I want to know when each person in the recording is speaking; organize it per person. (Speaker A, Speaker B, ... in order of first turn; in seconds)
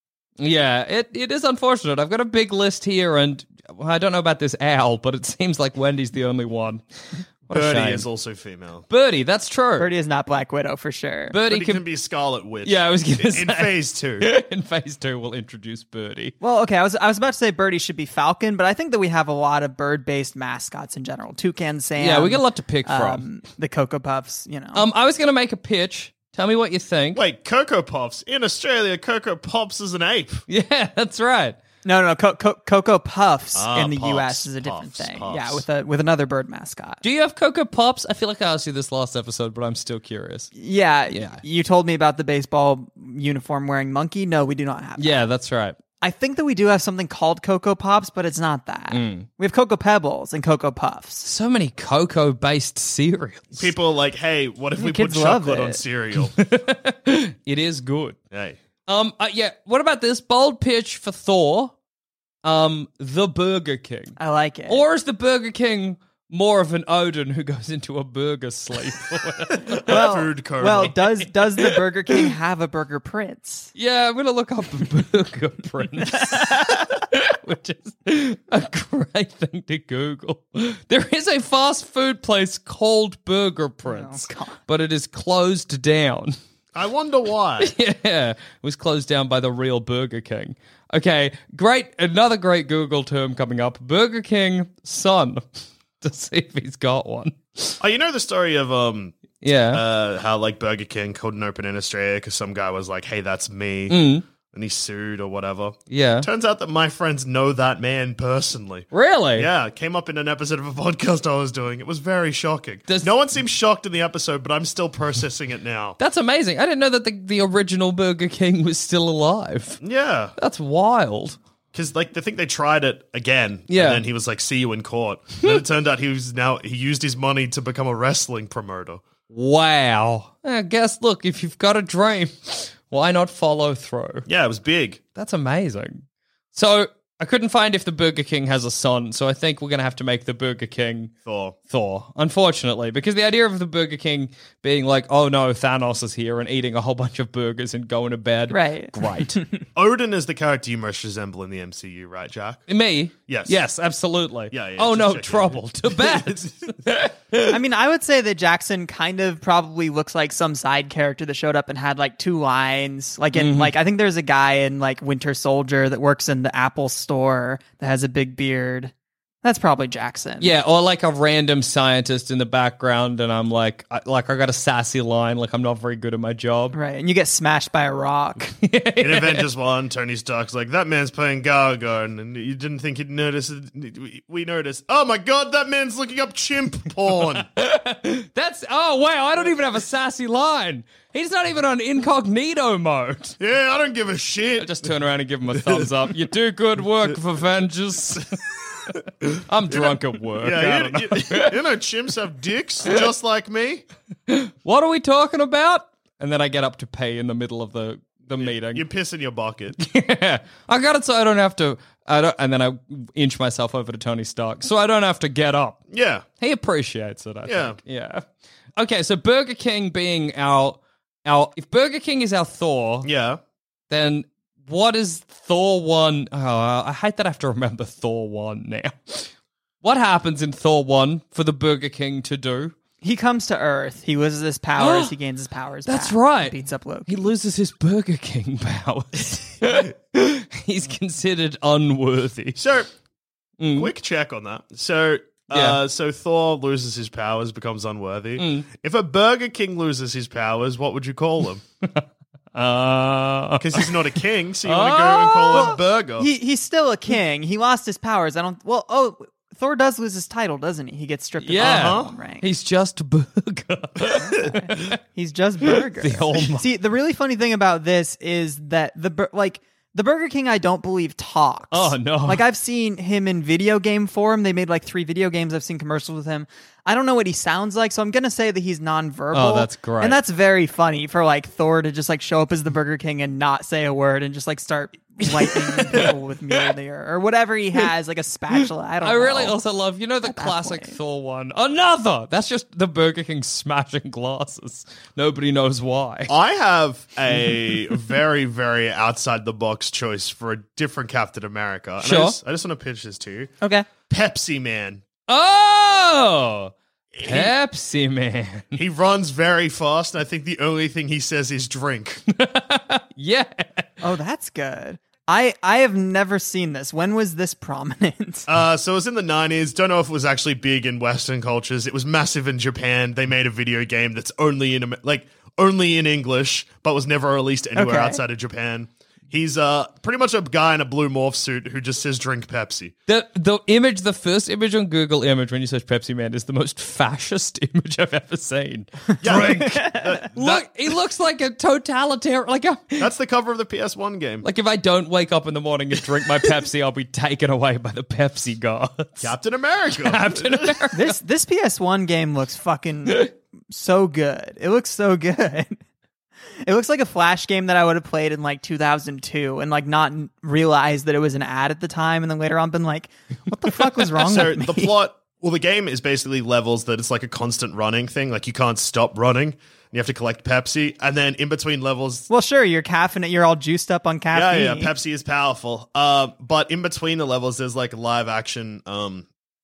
Speaker A: 0.4-6.8, 7.5-8.1, 8.9-9.9, 11.3-11.8, 12.6-16.4, 22.0-23.2, 24.7-27.2, 30.5-31.6, 37.0-40.5, 41.1-41.4, 45.0-45.8, 48.9-49.3, 51.2-53.7, 56.3-58.2, 58.9-61.7, 62.4-64.2, 64.7-70.1, 70.8-72.3, 73.8-86.4, 87.6-95.4, 96.0-97.8, 99.4-99.8, 103.9-104.2, 105.9-106.3, 108.9-109.5, 116.0-119.8, 120.4-121.4, 123.7-124.0, 129.3-134.3, 135.2-136.0, 136.5-141.1, 141.7-149.4, 152.7-157.6, 163.3-163.7, 170.4-176.8, 178.6-179.5, 187.5-193.4, 194.6-198.4, 199.3-201.6, 204.3-208.8, 209.8-215.8, 216.4-218.2, 218.8-223.1, 223.9-229.3, 229.8-232.7, 234.8-235.1, 235.9-242.6, 243.6-243.9, 245.5-245.8, 248.4-248.7, 252.6-254.0, 254.6-255.8, 261.4-265.0, 265.6-266.7, 271.7-272.4, 279.3-280.2, 285.4-286.1, 288.5-296.3, 302.0-302.4, 305.3-308.8, 312.3-313.9, 333.1-339.8, 340.3-343.1, 344.4-349.3, 349.9-351.2
Speaker B: 7.5-8.9, 11.5-14.3, 27.1-30.4, 33.5-35.6, 53.6-56.3, 58.3-58.6, 69.8-71.0, 86.8-87.7, 97.8-99.2, 99.7-116.0, 119.8-120.3, 121.7-129.0, 134.3-135.0, 141.2-141.6, 149.8-152.6, 153.3-153.6, 154.5-156.5, 179.0-187.5, 193.4-194.9, 199.7-203.8, 208.4-209.8, 215.9-216.2, 217.5-217.8, 223.0-223.4, 242.6-242.9, 243.8-251.6, 253.6-256.3, 261.6-262.1, 296.3-305.0, 307.1-307.5, 308.8-312.2, 318.5-332.9, 339.2-340.7, 343.0-344.5, 349.2-350.8, 364.1-372.3, 374.3-379.3
Speaker C: 9.8-11.4, 16.4-24.8, 31.9-37.0, 40.6-45.2, 46.0-51.3, 54.8-55.8, 64.2-64.8, 69.9-73.7, 76.1-76.8, 83.8-84.6, 148.5-149.6, 157.5-168.9, 169.4-170.5, 176.7-178.5, 233.0-237.3, 255.5-262.4, 264.1-289.6, 290.2-290.9, 303.6-303.9, 314.0-318.5, 327.8-328.2, 339.3-340.2, 350.9-355.8, 356.6-365.0, 372.3-374.9